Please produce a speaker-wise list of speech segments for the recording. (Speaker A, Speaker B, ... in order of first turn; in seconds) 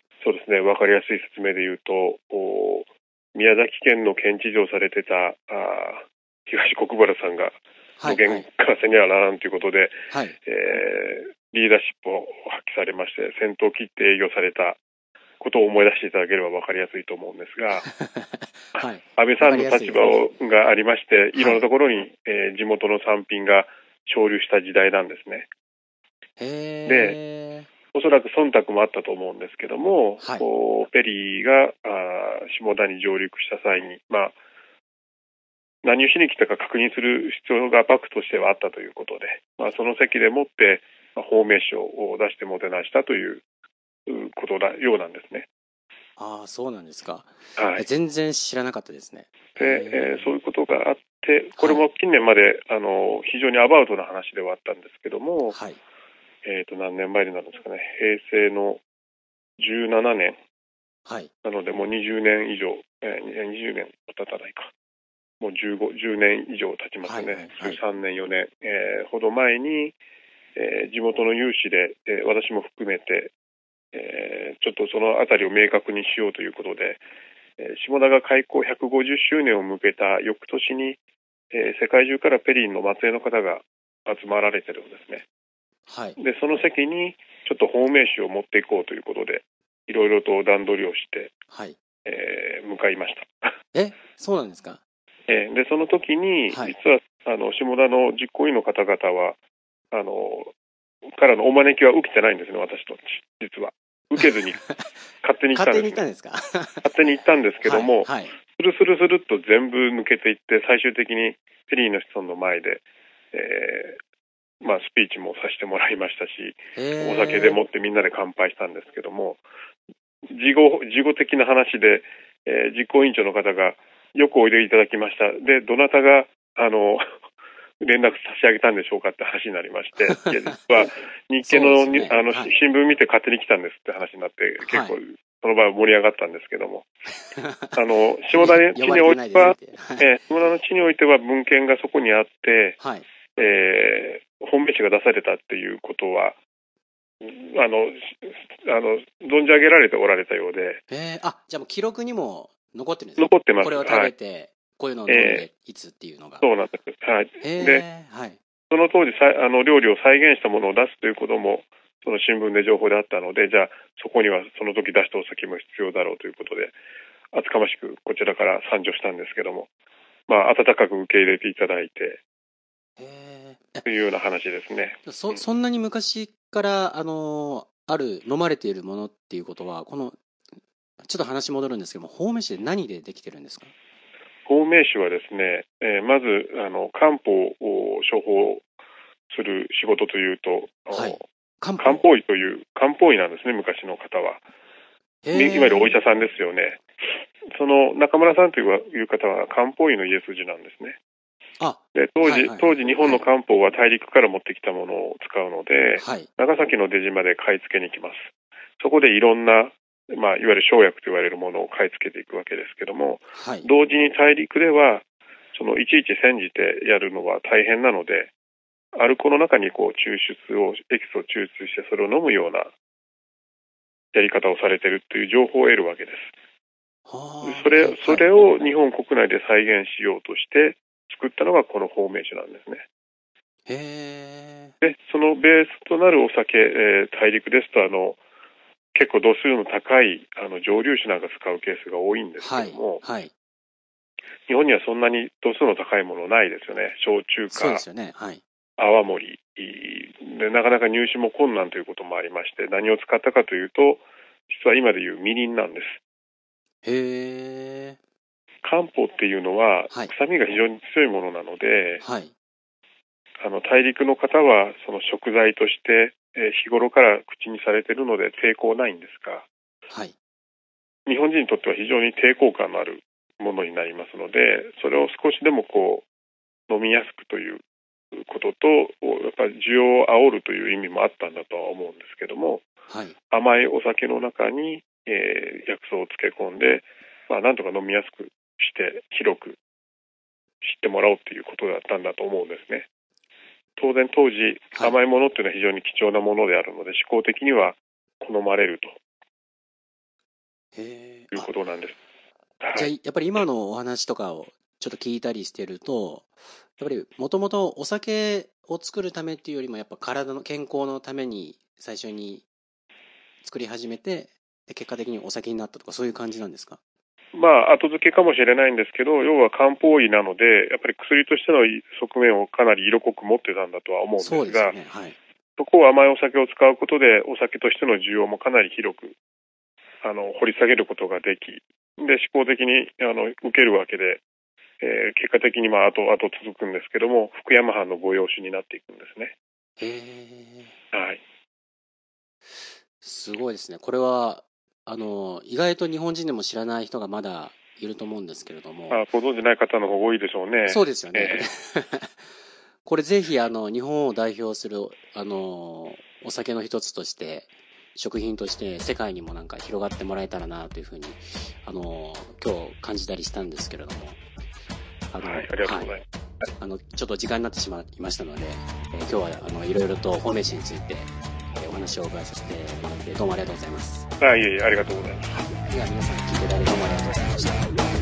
Speaker A: 0.2-14.8, 15.4-17.9, 19.1-25.5, 26.9-27.2, 27.9-34.4, 35.8-43.4, 44.1-45.5, 47.5-47.8, 49.6-55.6, 56.4-58.8, 59.6-60.4, 61.4-64.7, 65.4-70.0, 70.5-73.3, 73.9-77.0, 77.6-81.0, 81.5-85.2, 86.2-91.3, 92.0-93.5, 95.3-99.4, 99.9-100.5, 101.1-104.6, 105.2-106.0, 106.8-114.0, 114.6-119.4, 120.3-127.0, 127.8-136.9, 137.7-142.8, 143.3-146.4, 147.2-150.8, 153.2-154.1, 155.1-155.4, 156.4-157.8, 158.7-166.7, 167.3-169.7, 170.3-172.2, 173.8-175.4, 184.4-188.6, 189.3-191.2, 191.8-194.4, 195.3-196.8, 197.5-201.0, 201.9-218.3, 218.9-222.7, 224.1-226.3, 227.4-232.8, 234.8-238.2, 238.9-243.0, 244.5-247.8, 248.8-256.0, 258.6-262.0, 263.4-269.5, 271.1-276.1, 276.7-277.6, 278.1-282.6, 283.3-289.6, 290.6-292.9, 293.8-299.0, 301.3-302.0, 302.6-302.9, 317.3-324.8, 325.6-329.1, 330.0-334.2, 334.8-339.3, 340.9-341.2, 348.9-351.5, 365.2-366.0, 374.2-375.4
Speaker B: 8.0-8.4, 10.1-10.3, 17.8-20.2, 21.4-21.6, 26.4-27.7, 30.2-30.4, 46.2-50.3, 51.6-51.8, 55.5-55.8, 61.0-61.3, 67.0-67.8, 85.9-86.2, 91.5-91.8, 93.7-94.8, 96.5-96.7, 105.5-106.9, 107.6-108.3, 116.7-117.6, 131.4-132.5, 134.6-134.9, 137.3-137.8, 138.3-140.1, 142.8-143.1, 150.9-156.4, 157.4-158.4, 173.0-173.8, 175.1-180.2, 181.0-183.7, 190.9-192.0, 195.2-196.0, 201.6-203.2, 206.0-206.3, 213.3-213.7, 227.1-228.7, 233.7-234.7, 242.4-243.3, 247.5-248.4, 256.8-258.0, 262.0-262.3, 269.9-270.1, 282.9-283.1, 300.7-301.5, 302.7-312.5, 313.4-316.8, 324.2-325.2, 339.8-340.7, 343.0-349.0, 350.6-352.1, 352.8-364.2, 365.1-365.9, 366.6-374.1, 375.3-377.7